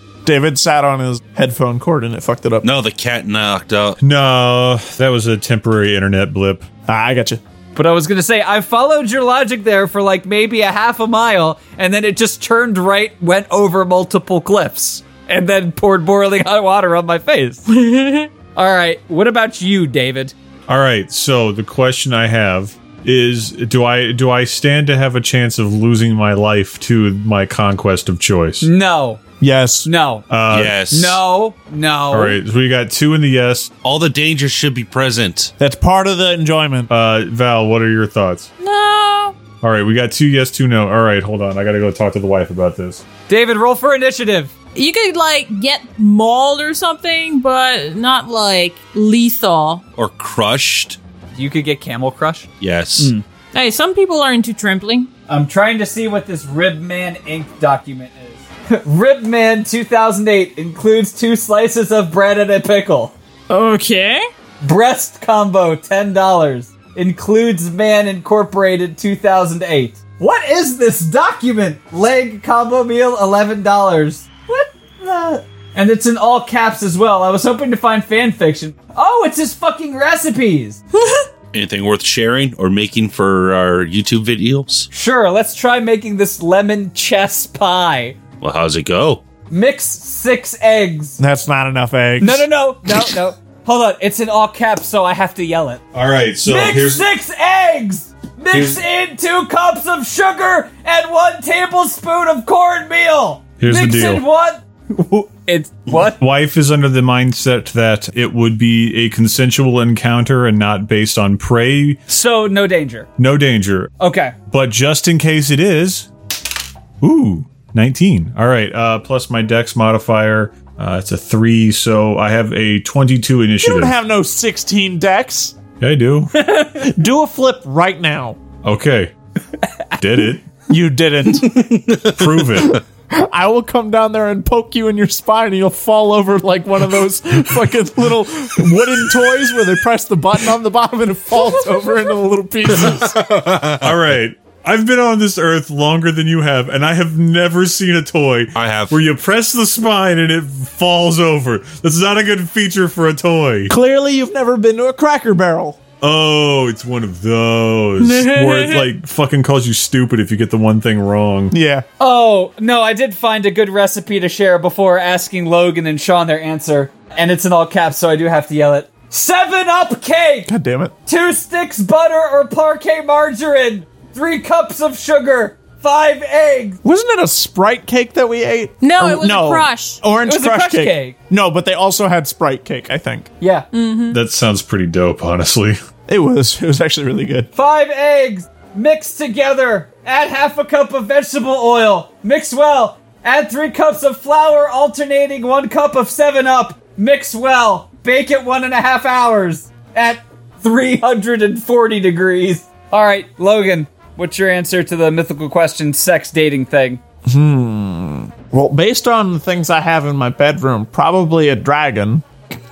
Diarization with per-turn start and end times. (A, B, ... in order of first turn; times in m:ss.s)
0:00.2-0:02.6 A
0:02.6-0:04.0 B
0:04.0-0:06.6 C
0:06.9-0:07.4 A
0:07.7-0:17.7 D
0:17.7-0:18.3 E
0:18.5-0:20.3 D
0:20.7-0:28.7 C
0:28.6-0:29.2 D
0:29.4-0:29.9 A
0:29.8-0:30.2 D
0:30.3-0:30.8 C
0:30.5-0:31.2 B
0:30.9-0:32.4 D
0:32.1-0:33.7 C
0:33.8-0:35.5 B
0:35.6-0:36.9 A
0:36.9-0:38.5 C
0:38.6-0:39.4 E
0:39.6-0:43.0 C
0:43.3-0:44.5 D
0:44.7-0:49.8 E
0:50.0-0:51.0 B
0:51.3-0:53.2 D
0:52.6-0:53.1 B
0:53.5-0:55.1 E
0:55.3-1:03.1 D
1:03.5-1:04.2 E
1:04.6-1:20.8 D
1:21.0-1:21.2 E
1:21.5-1:24.9 B
1:24.9-1:28.2 D
1:28.4-1:29.2 B
1:29.5-1:31.2 D
1:31.2-1:32.4 A
1:32.2-1:35.8 D
1:35.9-1:37.0 C
1:36.4-1:46.2 D
1:43.6-1:44.2 C
1:46.0-1:52.0 C
1:52.1-1:53.1 D
1:53.2-1:53.9 C
1:54.0-1:54.4 D
1:54.5-1:56.1 C
1:57.0-2:03.9 C
2:03.6-2:05.5 A
2:05.8-2:06.4 C
2:06.4-2:06.8 D
2:06.8-2:08.4 A
2:08.6-2:09.1 C
2:10.0-2:10.5 C
2:10.7-2:12.0 A
2:12.0-2:12.8 C
2:12.7-2:23.1 A
2:22.8-2:23.9 B
2:23.8-2:33.7 C
2:28.6-2:29.0 B
2:33.7-2:35.8 A
2:36.0-2:41.5 C
2:38.0-2:38.8 E
2:41.5-2:41.8 A
2:42.0-2:50.5 D
2:50.5-2:50.9 A
2:51.1-2:56.8 D
2:56.8-3:03.3 A
2:58.8-3:00.0 E
3:00.2-3:01.1 D
3:03.4-3:03.7 D
3:03.7-3:04.2 E
3:04.1-3:05.8 C
3:06.1-3:07.5 A
3:07.5-3:27.0 D
3:27.2-3:32.2 A